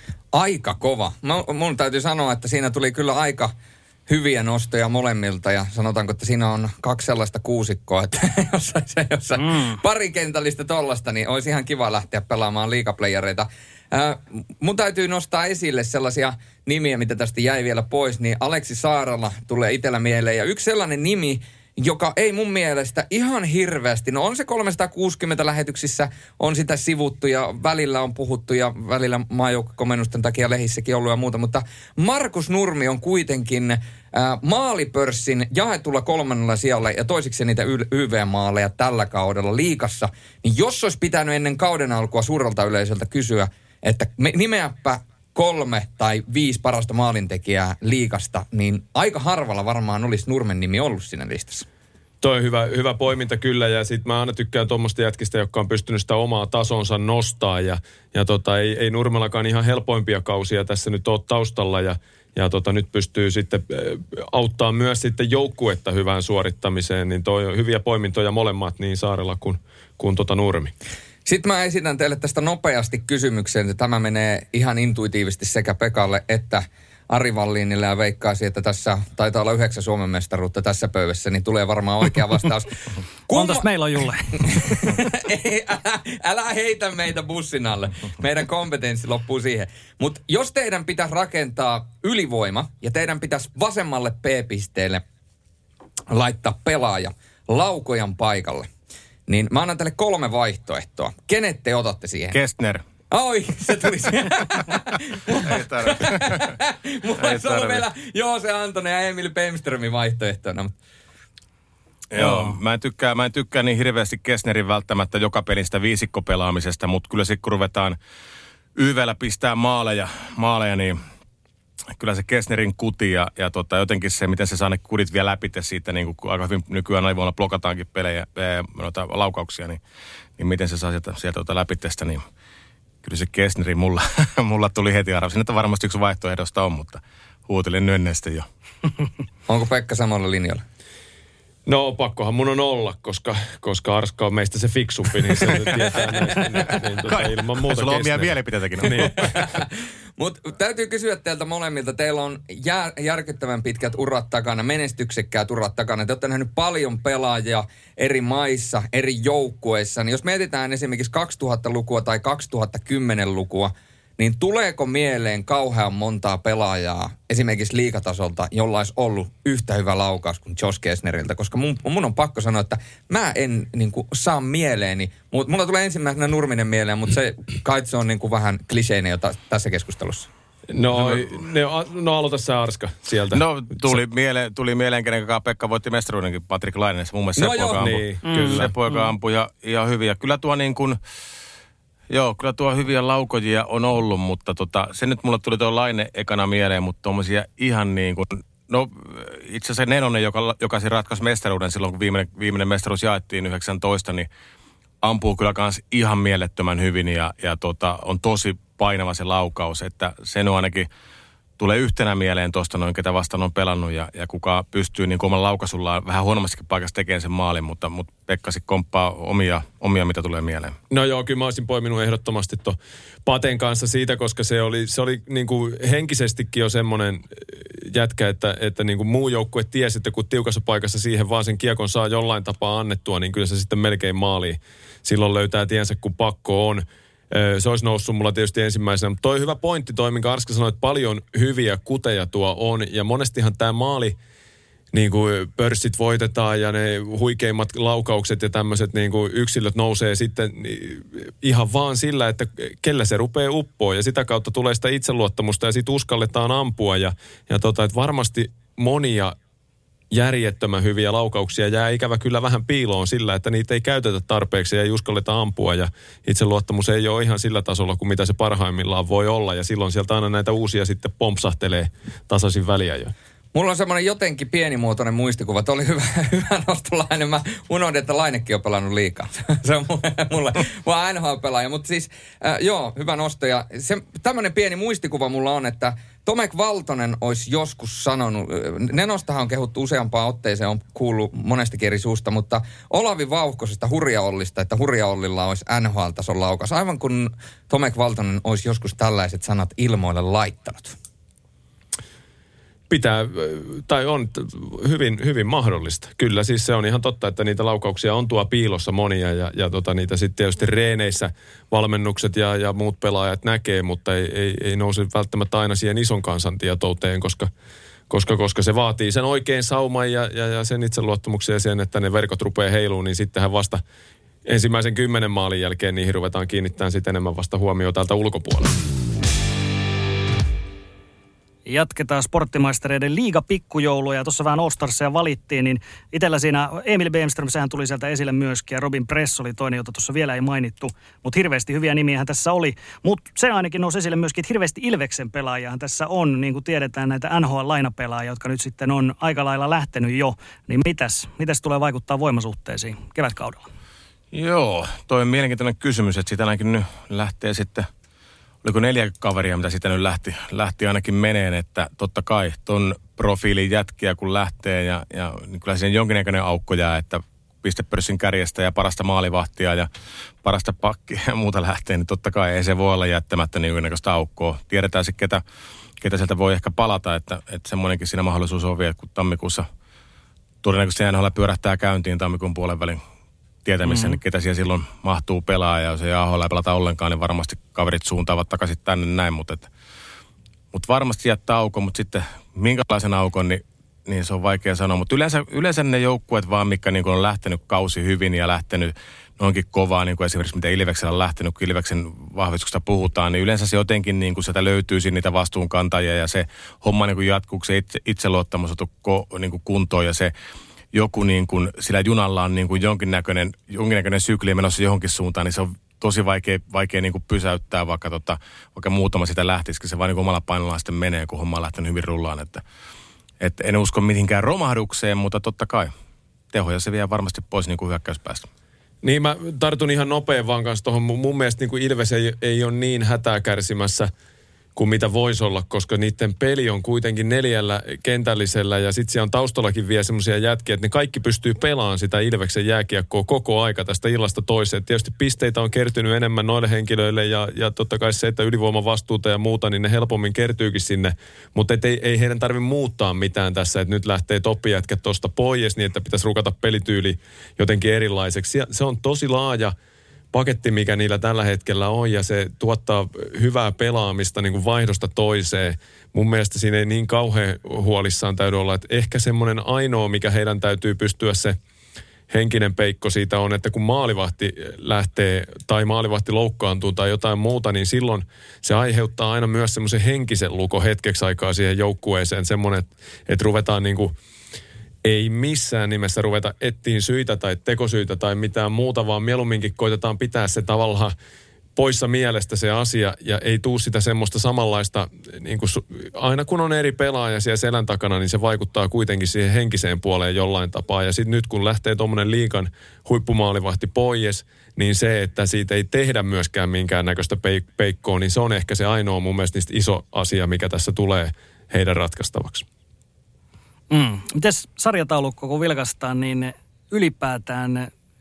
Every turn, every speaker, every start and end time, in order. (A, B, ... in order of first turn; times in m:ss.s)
0:00.3-0:03.5 A
0:04.1-0:51.6 A
0:52.2-1:10.7 B
1:11.2-1:23.7 A
1:23.3-1:24.8 C
1:24.4-1:35.0 A
1:36.1-1:38.7 A
1:39.3-1:42.4 A
1:42.3-1:42.8 D
1:43.1-1:50.7 A
1:45.3-1:46.5 D
1:47.2-1:47.8 D
1:52.1-1:58.0 D
1:52.2-1:52.6 C
1:58.8-2:01.0 D
2:02.0-2:09.8 D
2:10.4-2:12.2 D
2:13.0-2:18.5 D
2:19.5-2:20.6 A
2:21.7-2:29.3 B
2:27.0-2:29.4 D
2:30.2-3:00.3 A
3:00.7-3:04.0 B
3:00.9-3:01.3 D
3:03.3-3:11.0 D
3:07.4-3:07.8 A
3:07.8-3:08.8 B
3:08.3-3:09.0 C
3:12.1-3:24.3 D
3:25.0-3:30.9 D
3:31.6-3:40.8 D
3:40.9-4:04.2 B
4:04.9-4:19.4 B
4:20.1-4:33.1 B
4:33.5-5:01.0 A
5:02.9-5:17.5 B
5:18.1-5:23.8 B
5:24.4-5:28.7 B
5:31.7-5:53.7 C
5:54.3-5:57.9 D
5:58.6-6:09.9 D
6:10.4-6:15.4 D
6:16.0-6:19.7 D
6:20.6-6:23.0 D
6:23.6-6:29.7 D
6:23.8-6:24.2 C
6:30.7-6:50.3 D
6:50.9-7:02.6 D
7:03.4-7:05.9 D
7:06.5-7:08.5 D
7:09.0-7:14.1 B
7:14.8-7:39.8 B
7:40.3-7:51.6 B
7:52.3-8:04.2 B
8:05.0-8:11.1 B
8:11.8-8:32.7 B
8:33.9-8:37.9 C